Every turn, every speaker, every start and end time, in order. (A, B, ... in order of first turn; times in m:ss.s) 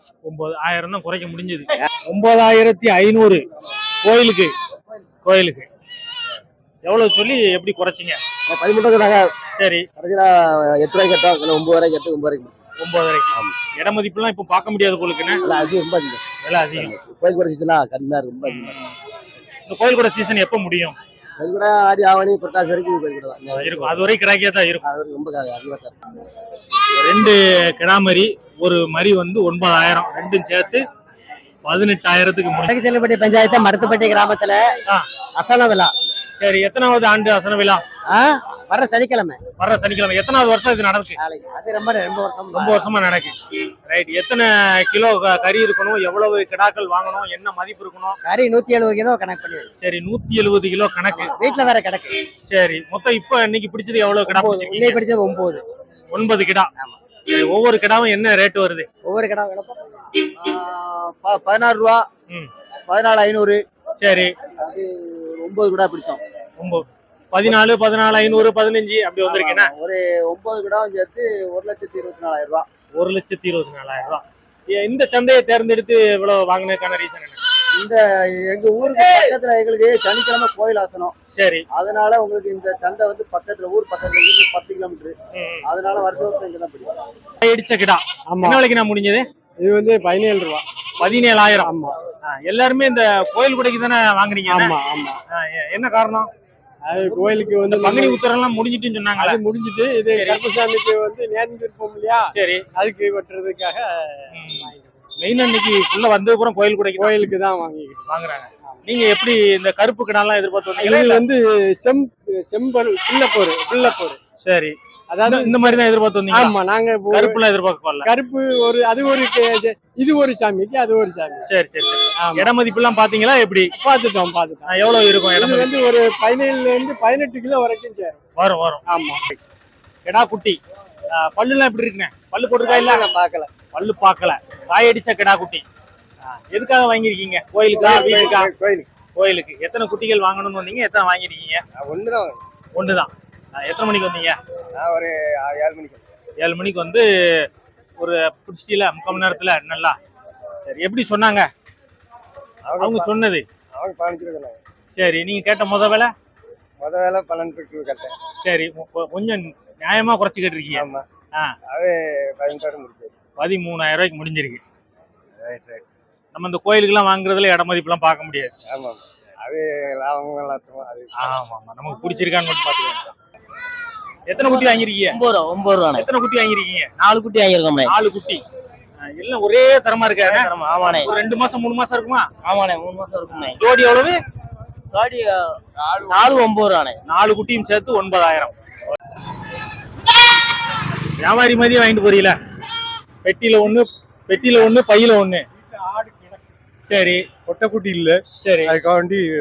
0:00.2-0:03.4 A
0:04.0-0:04.5 A
0:05.2-0:05.7 A
0:06.8-0:08.2 A
0:08.5-0:09.1 B
0:09.6-0:09.8 A
0:10.8-0:12.5 B
0:12.8-0:15.4 A
0:15.4-0:16.2 B
0:16.4-0:16.9 A
0:16.8-0:18.7 B
0:18.4-0:21.0 A
0:21.4-0:24.0 B
0:23.5-0:24.8 A
0:24.8-0:25.7 B
0:25.2-0:25.8 C
0:27.0-0:30.8 A
0:31.6-0:32.7 A
0:32.7-0:34.6 C
0:35.4-0:35.9 C
0:36.4-0:37.8 A
0:38.1-0:39.4 C
0:39.6-0:41.2 A
0:41.2-0:42.9 C
0:42.5-0:43.3 A
0:43.8-0:48.2 A
0:48.2-0:49.7 C
0:49.8-0:51.3 A
0:51.1-0:52.2 C
0:52.5-0:55.0 A
0:54.2-0:55.6 C
0:56.1-0:56.7 A
0:57.2-0:58.9 A
0:59.0-0:59.7 C
1:00.4-1:02.0 B
1:02.9-1:03.6 B
1:04.0-1:04.3 A
1:04.6-1:06.2 B
1:06.6-1:09.7 A
1:09.2-1:12.6 B
1:13.0-1:17.4 A
1:17.8-1:21.1 B
1:21.3-1:21.6 A
1:21.7-1:25.1 B
1:25.3-1:25.6 A
1:25.6-1:26.9 B
1:27.4-1:29.2 A
1:29.6-1:30.6 D
1:31.0-1:31.7 A
1:31.6-1:31.9 D
1:32.2-1:34.7 A
1:34.5-1:35.2 D
1:35.3-1:36.3 A
1:36.9-1:38.2 D
1:37.6-1:39.4 A
1:39.2-1:44.0 D
1:40.1-1:40.4 A
1:42.3-1:42.6 A
1:44.3-1:47.2 A
1:47.0-1:48.0 D
1:48.1-1:51.2 A
1:50.8-1:54.2 D
1:54.4-1:56.5 A
1:55.1-1:57.2 D
1:57.1-1:58.1 A
1:58.0-2:01.4 D
2:01.4-2:03.7 A
2:02.2-2:02.5 D
2:03.7-2:08.2 D
2:04.7-2:05.7 A
2:08.4-2:08.8 A
2:08.9-2:09.2 D
2:10.0-2:10.6 A
2:11.1-2:13.0 A
2:12.7-2:13.5 B
2:13.7-2:15.6 A
2:16.5-2:18.5 A
2:17.8-2:18.8 B
2:19.2-2:21.6 A
2:21.8-2:22.4 B
2:22.7-2:24.4 A
2:24.8-2:26.0 B
2:26.4-2:27.0 A
2:28.0-2:30.0 A
2:30.6-2:31.5 A
2:32.7-2:33.1 B
2:32.8-2:33.4 A
2:33.8-2:34.5 B
2:34.9-2:36.1 A
2:36.8-2:38.1 B
2:38.4-2:41.5 A
2:40.8-2:41.0 B
2:41.7-2:43.1 B
2:43.4-2:44.6 A
2:46.3-2:48.5 A
2:48.7-2:51.0 B
2:51.2-2:53.1 A
2:54.3-2:55.2 A
2:55.2-2:56.0 E
2:55.9-2:56.9 A
2:57.1-2:57.7 E
2:57.8-2:58.4 A
2:59.1-3:02.3 A
3:00.5-3:01.0 E
3:02.5-3:03.4 E
3:03.4-3:04.2 A
3:04.9-3:05.3 E
3:06.1-3:06.9 E
3:07.1-3:08.5 A
3:11.2-3:12.4 A
3:13.2-3:15.4 A
3:16.9-3:17.2 A
3:18.4-3:18.8 A
3:18.7-3:19.0 D